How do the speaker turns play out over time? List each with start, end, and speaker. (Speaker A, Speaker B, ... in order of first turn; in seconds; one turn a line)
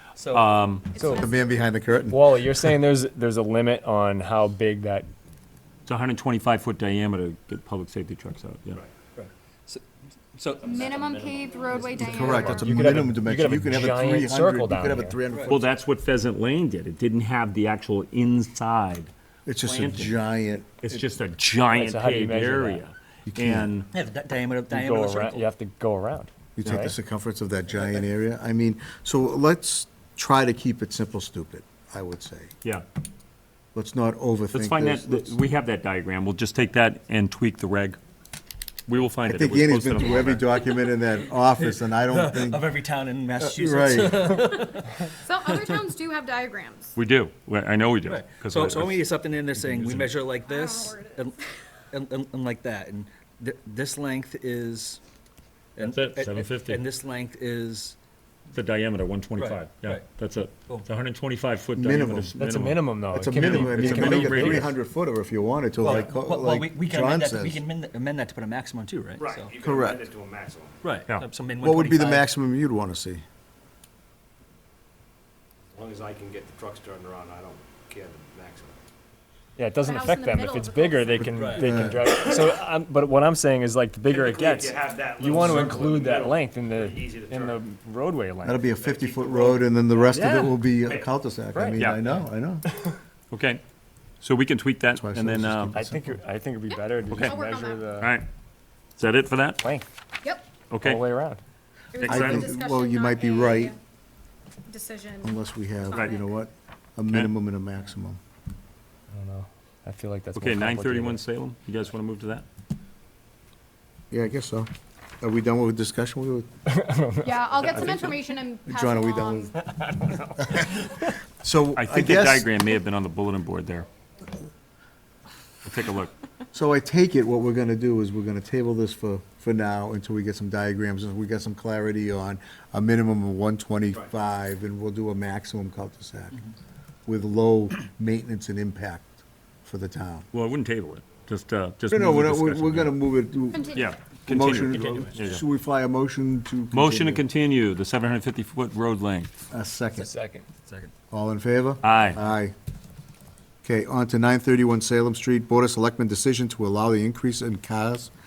Speaker A: 0.1-0.7
Speaker B: 0.3-0.9
Speaker C: 0.9-1.6
Speaker D: 1.0-1.3
Speaker E: 1.1-2.3
Speaker D: 2.1-5.1
Speaker B: 5.8-8.8
Speaker A: 9.2-9.8
Speaker A: 10.3-12.6
Speaker C: 10.6-12.9
Speaker E: 12.0-15.7
Speaker D: 12.1-15.2
Speaker A: 15.3-15.6
Speaker B: 15.5-20.1
Speaker E: 19.4-21.0
Speaker B: 20.8-23.9
Speaker D: 21.7-22.8
Speaker E: 23.3-23.7
Speaker A: 23.9-25.4
Speaker D: 24.7-26.9
Speaker E: 26.6-32.5
Speaker E: 33.7-35.4
Speaker B: 34.5-38.0
Speaker B: 38.9-40.5
Speaker E: 39.2-42.7
Speaker A: 41.4-45.8
Speaker E: 43.4-44.4
Speaker C: 44.4-47.0
Speaker B: 46.9-49.0
Speaker A: 48.0-51.4
Speaker B: 49.5-50.1
Speaker C: 50.4-51.4
Speaker A: 51.9-55.0
Speaker A: 55.8-58.0
Speaker B: 55.8-56.8
Speaker B: 58.5-64.7
Speaker A: 59.3-60.0
Speaker E: 61.7-62.3
Speaker D: 62.4-64.7
Speaker E: 63.1-67.6
Speaker A: 63.4-63.8
Speaker A: 65.8-69.5
Speaker F: 69.2-70.8
Speaker E: 69.6-70.1
Speaker A: 70.8-72.3
Speaker E: 71.6-73.2
Speaker F: 75.7-78.8
Speaker D: 79.6-88.6
Speaker C: 79.8-81.4
Speaker A: 81.3-81.8
Speaker E: 81.5-82.2
Speaker F: 84.1-87.7
Speaker E: 88.4-92.6
Speaker F: 88.7-89.6
Speaker D: 90.1-90.7
Speaker D: 91.5-92.0
Speaker B: 91.7-92.0
Speaker B: 93.3-93.6
Speaker B: 94.2-95.8
Speaker E: 94.9-96.2
Speaker D: 95.7-98.2
Speaker C: 96.7-97.9
Speaker B: 97.1-97.4
Speaker B: 98.0-98.3
Speaker B: 99.0-99.6
Speaker D: 99.6-99.8
Speaker C: 100.2-100.5
Speaker B: 100.7-101.0
Speaker D: 100.8-101.4
Speaker C: 101.9-103.8
Speaker B: 102.0-102.5
Speaker E: 102.0-103.7
Speaker C: 104.7-106.3
Speaker E: 105.2-108.2
Speaker B: 105.9-106.2
Speaker D: 109.1-111.2
Speaker B: 110.3-112.4
Speaker E: 114.1-114.7
Speaker E: 115.2-116.5
Speaker D: 116.7-118.1
Speaker C: 117.2-119.5
Speaker E: 118.7-119.5
Speaker D: 119.6-120.6
Speaker E: 121.4-122.5
Speaker B: 121.8-123.9
Speaker B: 125.6-126.1
Speaker E: 126.5-136.4
Speaker E: 137.1-140.3
Speaker B: 140.3-142.9
Speaker E: 141.9-147.2
Speaker C: 143.5-143.9
Speaker B: 143.7-145.4
Speaker A: 144.6-145.3
Speaker B: 146.7-149.3
Speaker E: 149.5-150.1
Speaker D: 150.0-150.4
Speaker A: 150.7-150.9
Speaker E: 151.1-152.5
Speaker B: 151.8-152.2
Speaker E: 153.6-158.1